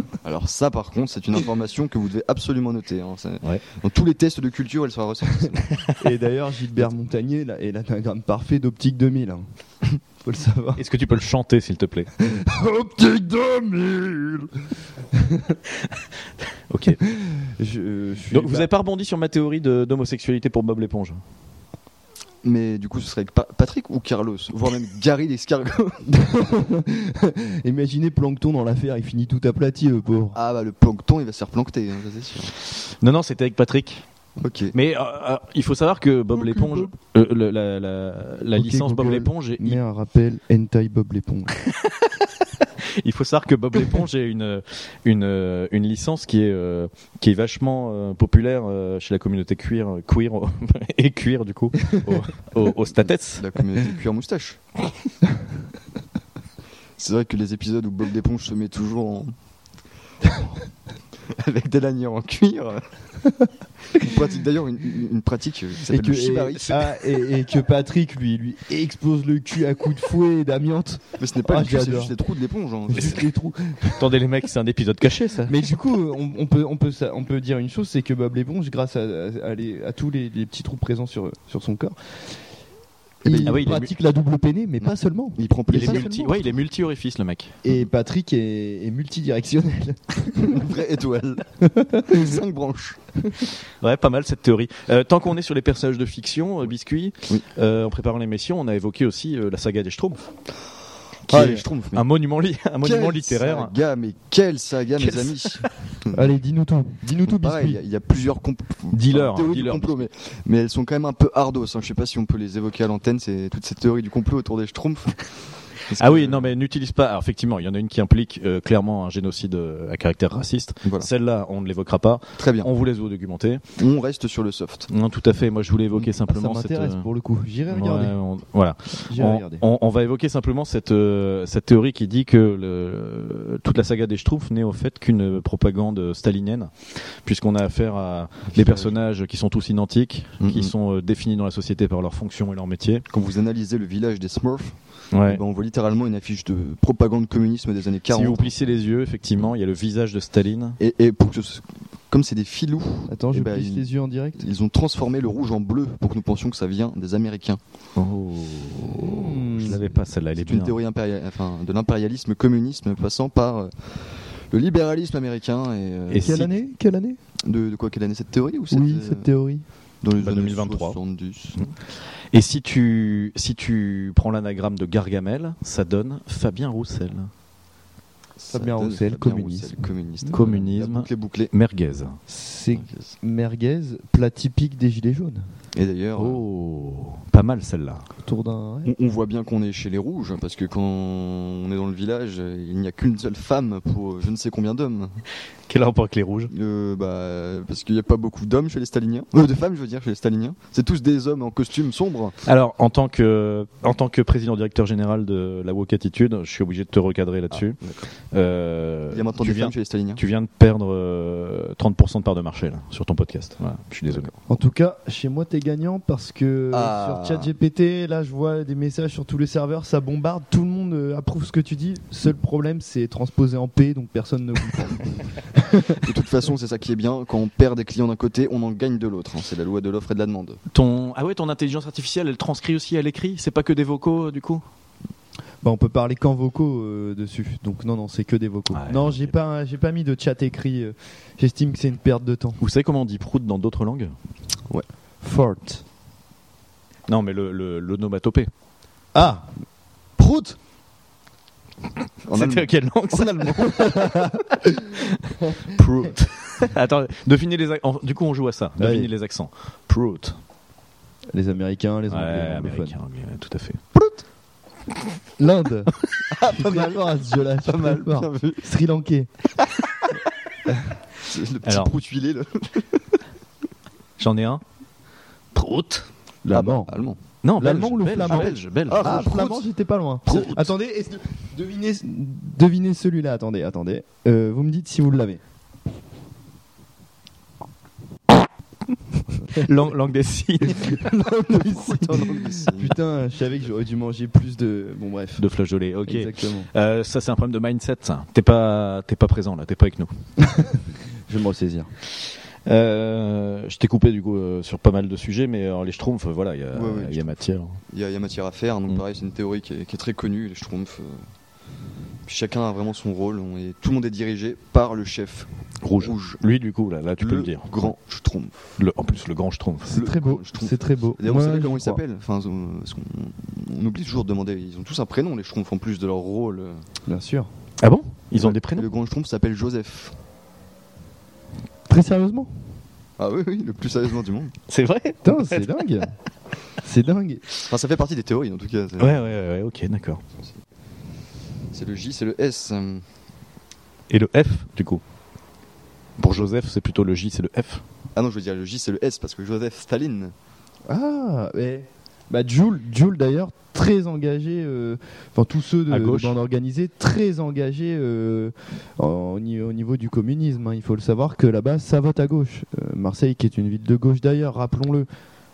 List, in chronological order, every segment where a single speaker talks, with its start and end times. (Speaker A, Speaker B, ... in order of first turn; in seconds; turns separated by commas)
Speaker A: 0.2-5.7, Speaker B: 6.0-9.5, Speaker B: 10.2-10.8, Speaker C: 10.8-12.1, Speaker B: 12.2-14.5, Speaker B: 15.1-15.6, Speaker C: 16.7-17.0, Speaker B: 17.0-18.7, Speaker C: 18.3-21.2, Speaker A: 22.4-26.0, Speaker B: 26.1-30.4, Speaker A: 30.3-32.5, Speaker C: 32.7-34.0, Speaker A: 34.4-34.8, Speaker C: 34.7-39.8, Speaker A: 36.3-36.9, Speaker B: 38.6-41.5, Speaker C: 41.6-42.2, Speaker C: 42.8-53.5, Speaker A: 53.4-54.6, Speaker A: 57.0-59.3, Speaker A: 61.3-62.9, Speaker A: 63.9-66.9, Speaker B: 65.8-72.1, Speaker A: 71.2-73.2, Speaker B: 72.9-74.1, Speaker C: 74.0-75.6, Speaker B: 75.5-82.0, Speaker B: 83.2-86.4, Speaker A: 83.2-83.8, Speaker C: 83.5-83.9, Speaker A: 85.4-86.5, Speaker C: 85.7-87.6, Speaker B: 87.6-90.7, Speaker A: 90.4-91.5, Speaker B: 91.6-92.4, Speaker A: 92.1-93.0, Speaker C: 93.8-100.2, Speaker A: 101.3-102.0, Speaker C: 101.3-103.7, Speaker A: 102.8-106.3, Speaker C: 105.0-105.7, Speaker B: 106.1-107.8, Speaker A: 107.2-116.5, Speaker C: 108.9-110.1, Speaker C: 116.0-123.6, Speaker A: 120.8-121.1, Speaker A: 122.4-122.7, Speaker A: 123.8-124.9, Speaker C: 124.9-127.0, Speaker B: 126.2-128.1, Speaker C: 127.7-143.1, Speaker B: 129.1-129.6, Speaker A: 138.5-138.9, Speaker A: 140.4-140.7, Speaker A: 143.1-148.5, Speaker C: 145.1-145.4, Speaker C: 148.1-150.8, Speaker A: 150.8-157.6, Speaker B: 153.1-154.5, Speaker C: 158.0-160.8, Speaker B: 158.9-159.8, Speaker A: 160.4-166.4, Speaker C: 166.1-166.5, Speaker B: 166.2-167.2, Speaker A: 167.4-169.3, Speaker B: 168.7-169.7, Speaker A: 170.0-171.6, Speaker C: 170.2-171.0, Speaker C: 172.3-177.3, Speaker A: 178.4-181.5, Speaker B: 178.5-180.4, Speaker C: 180.3-182.2, Speaker B: 182.3-185.5, Speaker A: 182.8-183.1, Speaker A: 185.7-186.4, Speaker C: 186.2-188.1, Speaker B: 188.2-188.9, Speaker A: 188.8-195.2, Speaker C: 195.7-196.5, Speaker A: 196.5-202.4, Speaker C: 202.4-207.8, Speaker A: 207.5-208.1, Speaker C: 208.3-214.3, Speaker A: 209.1-210.2, Speaker A: 214.1-214.3, Speaker B: 214.5-226.0, Speaker A: 216.7-217.5, Speaker A: 226.0-230.6, Speaker C: 230.7-234.6, Speaker B: 235.6-242.6, Speaker C: 238.7-239.3, Speaker C: 242.6-244.1, Speaker B: 245.2-245.8, Speaker C: 247.1-248.5, Speaker B: 249.1-249.5, Speaker B: 250.2-250.6, Speaker A: 252.3-253.9, Speaker C: 252.3-254.1, Speaker B: 253.8-254.8, Speaker C: 254.9-260.4, Speaker B: 255.4-255.7, Speaker B: 258.8-259.1, Speaker B: 261.3-263.0, Speaker C: 262.1-263.8, Speaker A: 263.9-264.2, Speaker B: 265.4-265.9, Speaker A: 266.3-268.6, Speaker B: 266.4-269.3, Speaker B: 270.7-270.9, Speaker A: 271.2-273.2, Speaker C: 271.6-271.9, Speaker C: 274.2-274.6, Speaker C: 275.5-276.1, Speaker B: 276.4-276.9, Speaker A: 276.5-277.2, Speaker C: 277.4-279.3, Speaker B: 277.6-285.4, Speaker A: 278.2-279.7, Speaker A: 280.3-280.6, Speaker C: 280.3-280.6, Speaker C: 289.5-291.1, Speaker B: 290.6-295.4, Speaker A: 291.5-293.0, Speaker C: 295.4-300.1, Speaker B: 296.1-296.7, Speaker B: 300.4-301.9, Speaker C: 302.7-307.8, Speaker A: 306.7-311.2, Speaker A: 312.2-316.4, Speaker C: 315.8-317.9, Speaker A: 317.2-318.6, Speaker C: 318.8-320.0, Speaker B: 319.9-322.0, Speaker A: 319.9-326.8, Speaker B: 327.1-327.5, Speaker C: 327.8-328.9, Speaker A: 328.4-330.2, Speaker B: 331.9-332.5, Speaker A: 333.2-334.6, Speaker C: 334.7-335.8, Speaker B: 335.2-336.1, Speaker B: 336.8-337.4, Speaker A: 337.6-339.2, Speaker C: 339.0-340.2, Speaker A: 341.7-343.1, Speaker C: 344.1-345.0, Speaker C: 346.2-347.8, Speaker A: 348.1-350.4, Speaker B: 350.9-365.1, Speaker C: 355.9-356.4